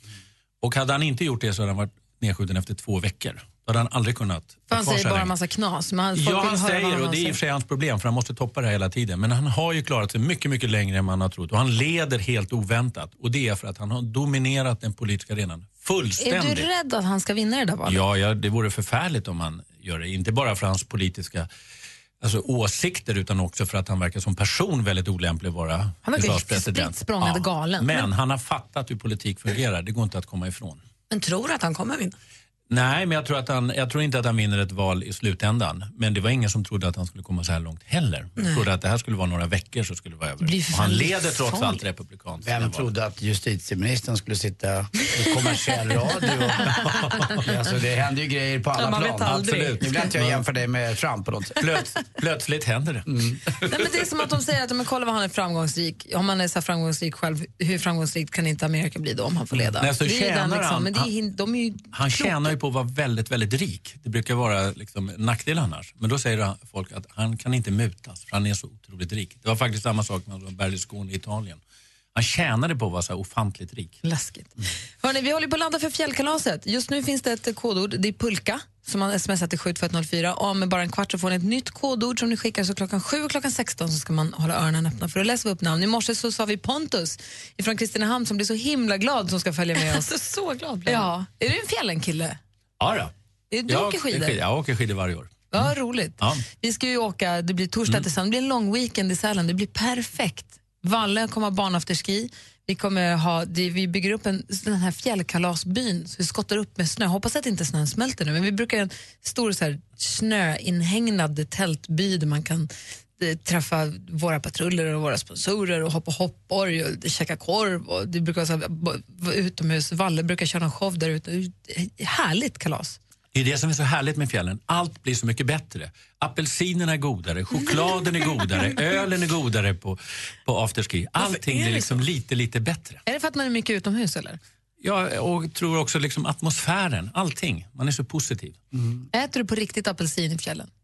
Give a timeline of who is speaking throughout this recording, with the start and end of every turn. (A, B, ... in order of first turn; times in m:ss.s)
0:00.6-0:05.3 A
0:04.7-0:07.4 B
0:06.2-0:16.7 A
0:16.2-0:18.0 B
0:17.9-0:21.5 A
0:22.2-0:30.8 A
0:26.0-0:28.1 B
0:31.1-0:32.2 C
0:32.7-0:42.9 A
0:40.4-0:41.8 B
0:42.4-0:51.7 D
0:46.7-0:47.4 A
0:48.8-0:50.1 C
0:49.2-0:50.4 A
0:51.6-0:53.7 A
0:53.1-0:53.4 D
0:53.7-1:02.5 B
0:59.8-1:01.1 A
1:01.9-1:11.6 A
1:12.2-1:14.0 A
1:14.0-1:30.1 B
1:29.8-1:31.1 C
1:30.8-1:32.4 B
1:32.8-1:33.1 A
1:33.5-1:34.4 B
1:33.7-1:36.4 A
1:35.5-1:52.7 B
1:53.2-2:03.0 B
2:03.3-2:13.0 A
2:11.2-2:12.0 C
2:13.1-2:14.4 B
2:14.8-2:18.6 A
2:19.1-2:20.7 B